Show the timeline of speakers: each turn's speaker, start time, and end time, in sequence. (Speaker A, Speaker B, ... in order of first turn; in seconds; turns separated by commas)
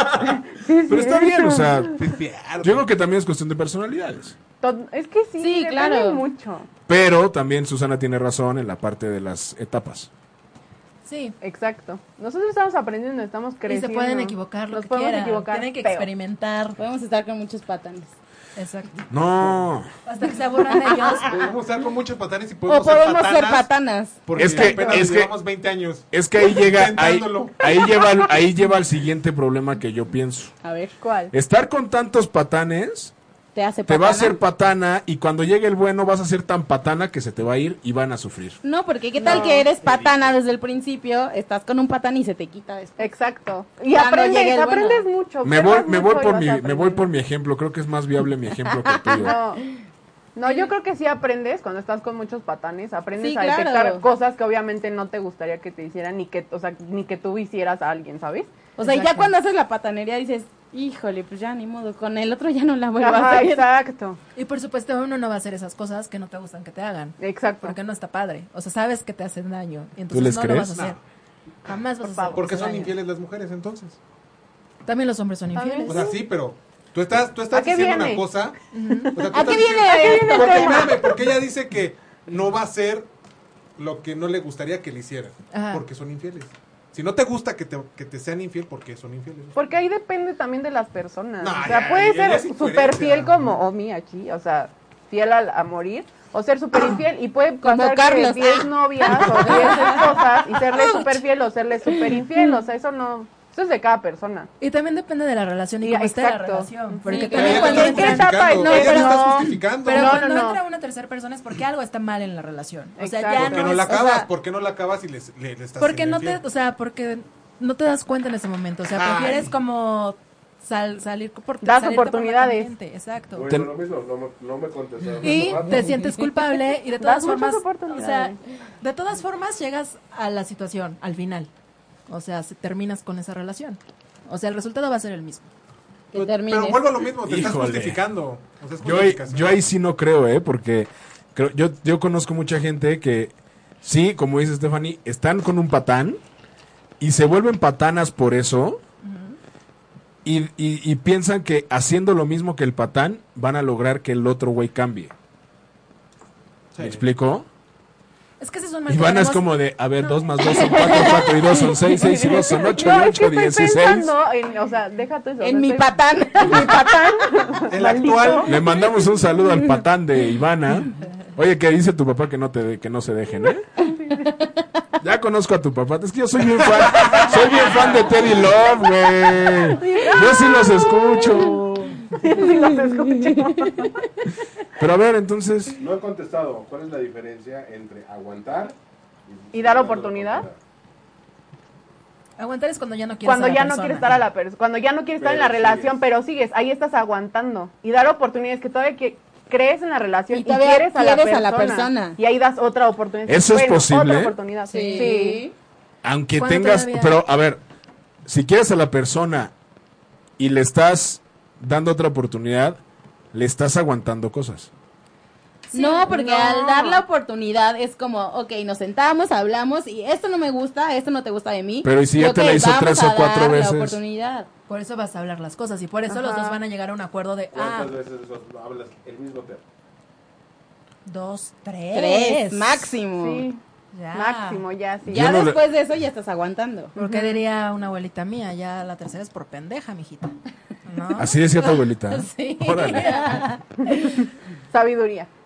Speaker A: 0.2-1.9, Speaker B: 0.9-2.0, Speaker C: 1.9-2.9, Speaker B: 2.6-4.3, Speaker A: 4.6-6.7, Speaker D: 5.4-6.2, Speaker B: 6.9-10.1, Speaker E: 11.0-11.3, Speaker A: 11.4-16.1, Speaker E: 13.7-16.8, Speaker D: 16.8-18.1, Speaker E: 18.6-19.0, Speaker B: 19.1-19.9, Speaker E: 20.1-21.4, Speaker C: 21.2-23.7, Speaker D: 22.7-24.2, Speaker C: 24.2-27.7, Speaker B: 24.4-25.3, Speaker A: 24.6-25.0, Speaker B: 26.1-30.6, Speaker D: 30.6-30.9, Speaker A: 31.0-31.3, Speaker B: 31.3-33.1, Speaker D: 33.5-34.4, Speaker B: 33.9-38.6, Speaker D: 38.6-43.0, Speaker A: 39.2-39.7, Speaker C: 39.3-40.1, Speaker A: 43.0-47.1, Speaker D: 43.9-45.0, Speaker B: 45.4-49.3, Speaker D: 48.9-49.7, Speaker A: 49.1-49.6, Speaker A: 50.3-58.5, Speaker D: 53.2-54.0, Speaker D: 58.8-63.6, Speaker E: 58.8-59.3, Speaker A: 63.0-64.2, Speaker E: 64.3-71.0, Speaker A: 67.2-67.7, Speaker B: 70.1-70.9, Speaker E: 71.7-72.9, Speaker A: 72.0-72.9, Speaker C: 72.3-74.0, Speaker E: 74.8-76.0, Speaker A: 75.5-76.2, Speaker C: 75.9-78.5, Speaker A: 77.5-78.2, Speaker E: 78.7-79.1, Speaker C: 79.1-83.1, Speaker D: 79.3-81.1, Speaker A: 79.3-81.1, Speaker C: 83.8-89.6, Speaker E: 85.5-85.8, Speaker A: 89.5-104.5, Speaker C: 91.4-93.6, Speaker D: 97.6-100.1, Speaker E: 99.5-99.9, Speaker E: 100.7-101.2, Speaker E: 104.6-114.3, Speaker A: 105.8-110.6, Speaker D: 107.1-108.2, Speaker C: 107.3-110.2, Speaker A: 113.0-113.9, Speaker C: 113.3-116.4, Speaker E: 115.8-123.5, Speaker C: 118.9-119.5, Speaker A: 121.6-122.7, Speaker F: 123.3-125.9, Speaker B: 123.5-123.7, Speaker E: 125.2-131.5, Speaker A: 127.0-128.4, Speaker E: 132.1-135.5, Speaker D: 136.1-136.9, Speaker C: 136.1-139.6, Speaker B: 137.2-138.0, Speaker B: 138.8-146.2, Speaker B: 147.0-148.8, Speaker E: 149.0-149.3, Speaker B: 150.2-155.1, Speaker C: 156.7-157.0, Speaker B: 156.8-157.5, Speaker E: 158.4-161.1, Speaker B: 158.9-164.1, Speaker D: 160.6-161.7, Speaker A: 162.0-168.5, Speaker D: 165.4-167.3, Speaker C: 167.7-168.5, Speaker B: 168.4-173.6, Speaker A: 173.8-174.3, Speaker B: 175.0-182.0, Speaker A: 179.8-181.4, Speaker A: 182.2-184.1, Speaker B: 184.8-185.8, Speaker F: 185.8-188.8, Speaker F: 189.3-190.6, Speaker A: 189.5-190.4, Speaker E: 192.4-194.1, Speaker A: 193.2-205.4, Speaker F: 195.2-196.0, Speaker D: 200.3-202.2, Speaker B: 203.3-204.3, Speaker E: 204.7-205.3, Speaker D: 204.7-205.5, Speaker B: 206.0-207.6, Speaker E: 206.3-207.2, Speaker B: 208.2-209.5, Speaker B: 210.4-212.8, Speaker B: 213.3-214.7, Speaker D: 215.7-224.5, Speaker A: 215.7-217.0, Speaker B: 221.8-224.0, Speaker E: 224.7-227.9, Speaker A: 226.1-226.6, Speaker F: 227.5-229.6, Speaker E: 231.1-232.9, Speaker D: 231.9-233.5, Speaker A: 233.2-233.6, Speaker E: 233.9-234.6, Speaker A: 234.1-235.3, Speaker B: 235.1-235.6, Speaker D: 235.1-236.9, Speaker E: 236.9-240.3, Speaker A: 237.0-237.3, Speaker E: 240.8-241.8, Speaker B: 241.2-243.1, Speaker D: 242.1-244.2, Speaker E: 242.9-243.5, Speaker A: 244.7-245.3